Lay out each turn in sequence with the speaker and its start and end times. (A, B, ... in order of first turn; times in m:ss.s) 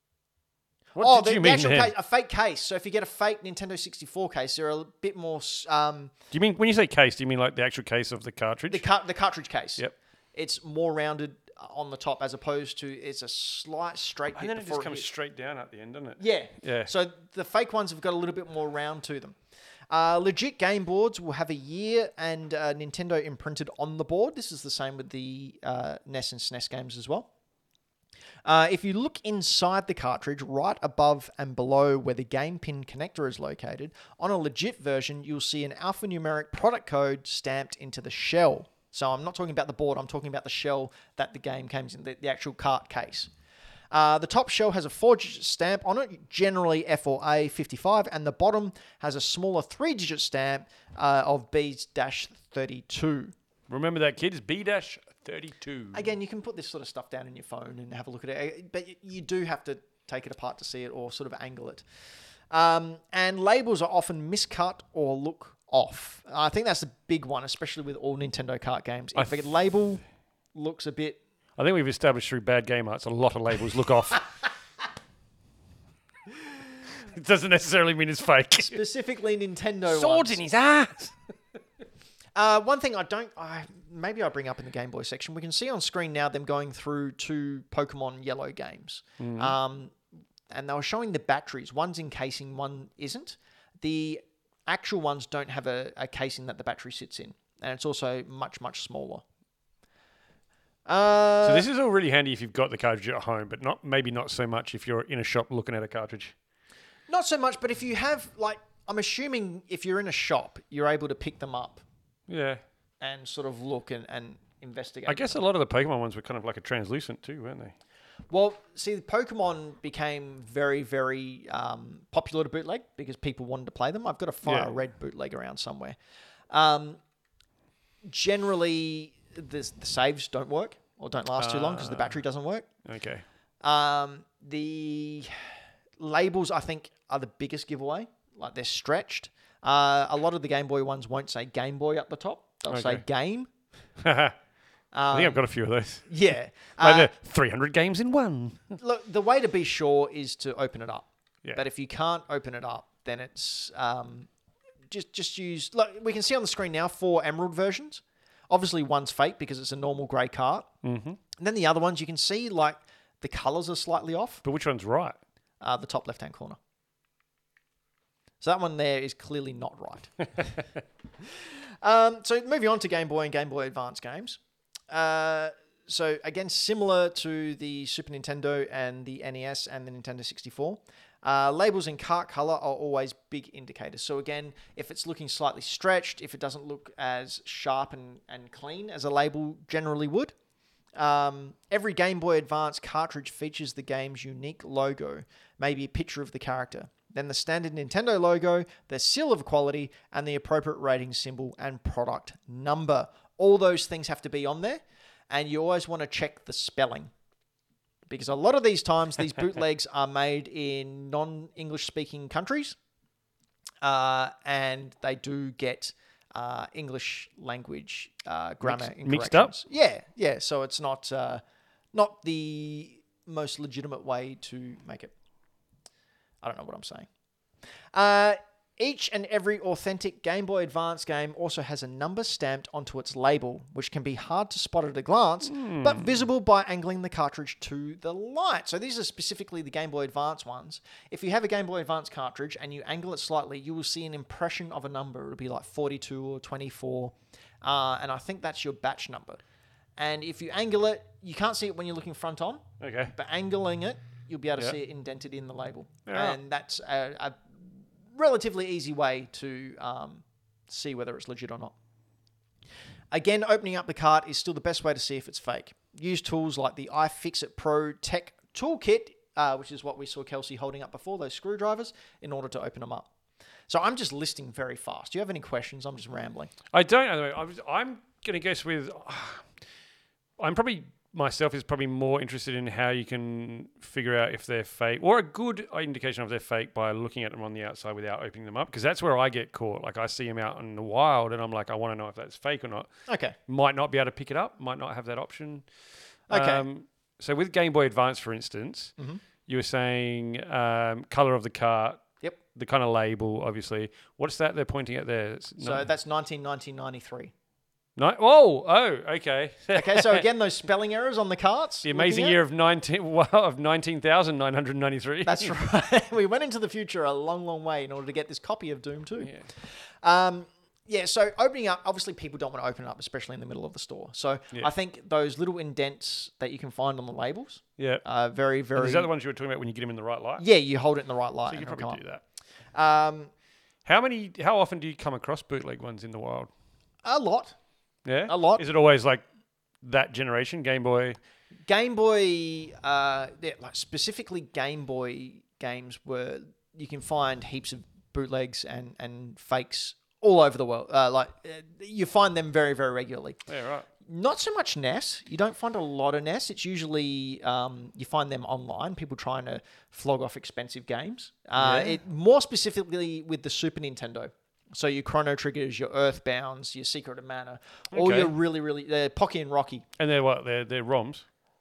0:00.9-0:01.9 A
0:01.0-0:06.1 B
0:06.3-0:08.9 A
0:08.7-0:15.1 B
0:14.3-0:16.9 A
0:16.2-0:19.4 B
0:19.9-0:27.3 B
0:28.4-0:43.3 B
0:43.9-0:53.3 B
0:53.7-0:56.1 A
0:55.9-1:01.8 B
1:02.5-1:10.0 B
1:09.1-1:09.5 A
1:10.5-1:11.2 B
1:11.6-1:14.3 A
1:16.9-1:18.8 A
1:18.6-1:20.4 B
1:19.9-1:21.2 A
1:22.3-1:29.9 B
1:29.2-1:29.6 A
1:30.5-1:39.2 B
1:40.9-1:41.7 B
1:41.4-1:46.3 A
1:47.1-1:51.8 B
1:52.3-1:52.6 A
1:53.0-1:55.3 B
1:55.0-1:57.7 A
1:58.3-2:06.0 B
2:04.4-2:04.8 A
2:06.5-2:07.0 B
2:08.0-2:12.7 B
2:11.4-2:12.2 A
2:12.8-2:13.2 A
2:13.6-2:15.4 B
2:16.0-2:23.5 B
2:22.7-2:23.0 A
2:24.0-2:24.3 A
2:24.9-2:25.4 B
2:25.1-2:26.1 A
2:26.1-2:27.1 B
2:26.8-2:28.8 A
2:28.8-2:34.3 B
2:34.9-2:40.7 B
2:40.8-2:41.2 A
2:41.4-2:44.4 B
2:44.4-2:45.2 A
2:45.6-2:46.6 B
2:48.4-2:50.2 B
2:51.4-2:54.4 B
2:54.9-3:10.3 B
3:11.0-3:27.1 B
3:28.1-3:32.8 B
3:33.8-3:41.4 B
3:38.6-3:39.5 A
3:41.9-3:45.1 B
3:46.4-3:47.1 B
3:47.9-4:09.4 B
3:55.4-3:56.2 A
4:10.0-4:21.7 B
4:12.8-4:13.1 A
4:16.0-4:16.4 A
4:23.1-4:33.1 B
4:33.7-4:36.5 B
4:36.7-4:39.4 A
4:40.4-4:52.9 A
4:53.1-4:53.4 B
4:53.5-4:55.7 A
4:56.3-4:56.6 B
4:56.3-4:58.9 A
4:59.5-5:02.0 A
5:02.6-5:05.9 A
5:05.6-5:07.3 B
5:08.0-5:10.2 A
5:09.7-5:12.4 B
5:11.8-5:15.5 A
5:15.2-5:29.1 B
5:27.8-5:28.0 A
5:28.8-5:30.4 A
5:30.4-5:32.0 B
5:31.5-5:32.2 A
5:32.7-5:33.3 B
5:33.8-5:36.5 A
5:37.0-5:37.6 B
5:38.0-5:39.2 A
5:38.3-5:38.6 B
5:39.8-5:41.2 A
5:41.7-5:53.4 B
5:53.5-5:53.9 A
5:54.0-6:09.9 B
6:01.6-6:02.0 A
6:07.9-6:08.3 A
6:10.0-6:11.2 A